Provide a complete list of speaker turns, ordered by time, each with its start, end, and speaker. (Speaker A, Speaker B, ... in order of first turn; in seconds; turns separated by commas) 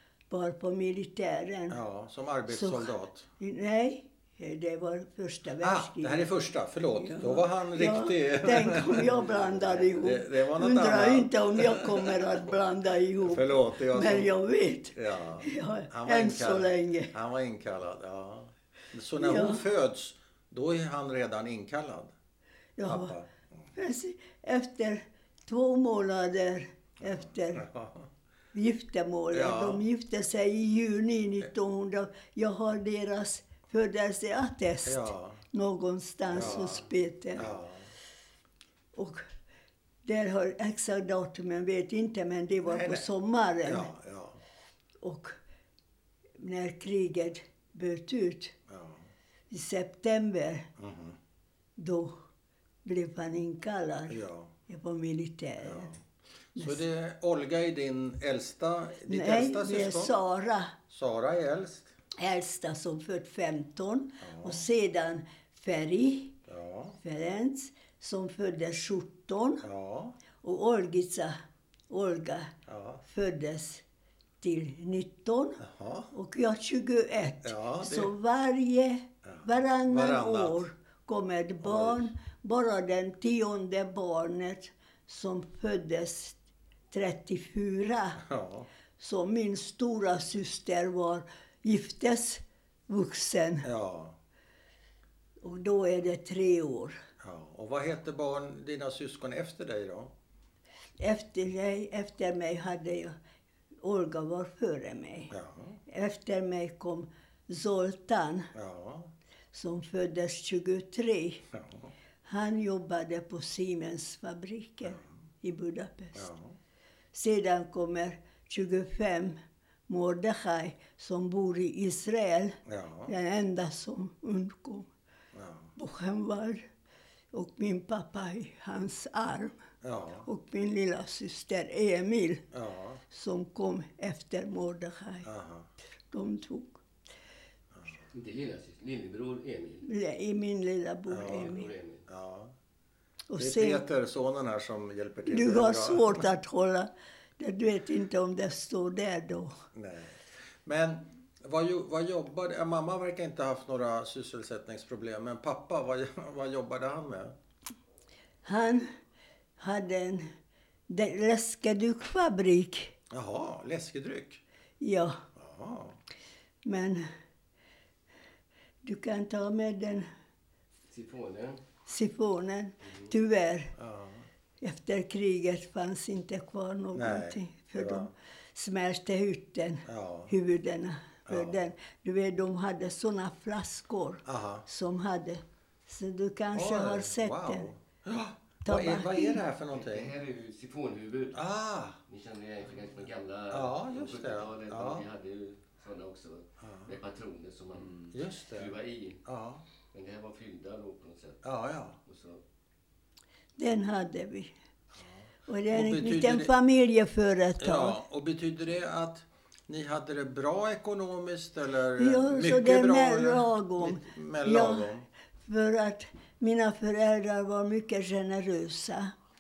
Speaker A: 0.3-1.8, Speaker B: 1.7-3.3, Speaker A: 2.5-6.3, Speaker B: 5.6-12.4, Speaker A: 6.9-17.1, Speaker B: 13.2-14.3, Speaker B: 14.9-22.1, Speaker A: 19.2-19.6, Speaker A: 22.8-23.1, Speaker B: 22.8-23.7, Speaker A: 23.7-27.7, Speaker B: 27.0-28.1, Speaker A: 28.5-37.5, Speaker B: 29.3-29.8, Speaker B: 34.8-35.4, Speaker B: 36.3-37.9, Speaker A: 38.9-39.2, Speaker A: 40.0-43.9, Speaker B: 42.6-43.1, Speaker B: 43.6-44.4, Speaker A: 45.0-45.3, Speaker A: 46.4-48.5, Speaker B: 48.7-49.1, Speaker A: 49.5-50.7, Speaker B: 50.8-51.2, Speaker A: 51.8-52.2, Speaker A: 52.8-56.0, Speaker B: 54.1-54.5, Speaker B: 55.6-56.0, Speaker B: 56.5-60.1, Speaker A: 56.6-56.8, Speaker A: 59.1-60.8, Speaker B: 60.9-61.9, Speaker A: 62.2-66.4, Speaker B: 64.2-64.7, Speaker B: 66.5-67.0, Speaker A: 67.0-69.7, Speaker B: 69.6-70.2, Speaker A: 70.4-71.4, Speaker A: 71.9-72.5, Speaker B: 72.7-73.0, Speaker A: 73.0-73.8, Speaker A: 74.4-86.4, Speaker B: 75.6-76.1, Speaker B: 77.4-78.1, Speaker B: 79.2-80.7, Speaker B: 81.6-82.1, Speaker A: 86.9-88.2, Speaker B: 88.2-88.7, Speaker A: 89.0-93.7, Speaker B: 93.6-94.2, Speaker A: 95.4-97.0, Speaker B: 97.2-100.1, Speaker A: 101.0-103.2, Speaker A: 103.8-105.3, Speaker B: 105.3-105.8, Speaker A: 105.9-108.5, Speaker B: 108.5-109.1, Speaker A: 109.5-111.5, Speaker B: 111.5-111.9, Speaker A: 112.2-116.3, Speaker B: 116.1-116.6, Speaker A: 117.1-119.4, Speaker A: 119.9-124.9, Speaker B: 122.7-123.1, Speaker B: 125.3-125.7, Speaker A: 125.8-126.6, Speaker A: 127.3-129.6, Speaker B: 129.8-130.3, Speaker A: 130.2-132.5, Speaker B: 132.5-133.0, Speaker A: 133.1-135.3, Speaker B: 135.2-135.7, Speaker A: 136.1-136.8, Speaker B: 137.7-138.0, Speaker C: 138.1-139.9, Speaker A: 139.8-141.7, Speaker B: 141.1-141.5, Speaker C: 141.1-142.0, Speaker B: 142.1-142.5, Speaker A: 143.3-143.8, Speaker B: 143.4-146.3, Speaker A: 145.3-149.6, Speaker B: 149.7-157.3, Speaker A: 158.4-158.9, Speaker A: 159.6-160.3, Speaker A: 160.9-162.9, Speaker B: 163.1-164.4, Speaker A: 164.8-165.2, Speaker B: 165.3-166.0, Speaker A: 166.6-167.1, Speaker A: 168.8-170.1, Speaker C: 170.9-171.6, Speaker A: 171.8-173.7, Speaker C: 172.8-173.1, Speaker B: 173.8-174.3, Speaker A: 174.6-187.7, Speaker B: 176.9-178.1, Speaker B: 179.8-180.3, Speaker B: 181.3-181.6, Speaker B: 184.2-184.7, Speaker B: 186.5-190.1, Speaker A: 188.7-189.4, Speaker C: 189.7-191.4, Speaker B: 191.3-192.0, Speaker C: 192.1-199.2, Speaker B: 193.5-195.1, Speaker B: 196.6-196.9, Speaker B: 198.0-199.7, Speaker C: 199.9-201.4, Speaker B: 201.4-202.0, Speaker C: 202.1-202.4, Speaker A: 203.6-204.5, Speaker B: 204.9-206.5, Speaker A: 205.5-208.0, Speaker B: 207.6-215.1, Speaker A: 212.0-214.9, Speaker A: 215.4-219.1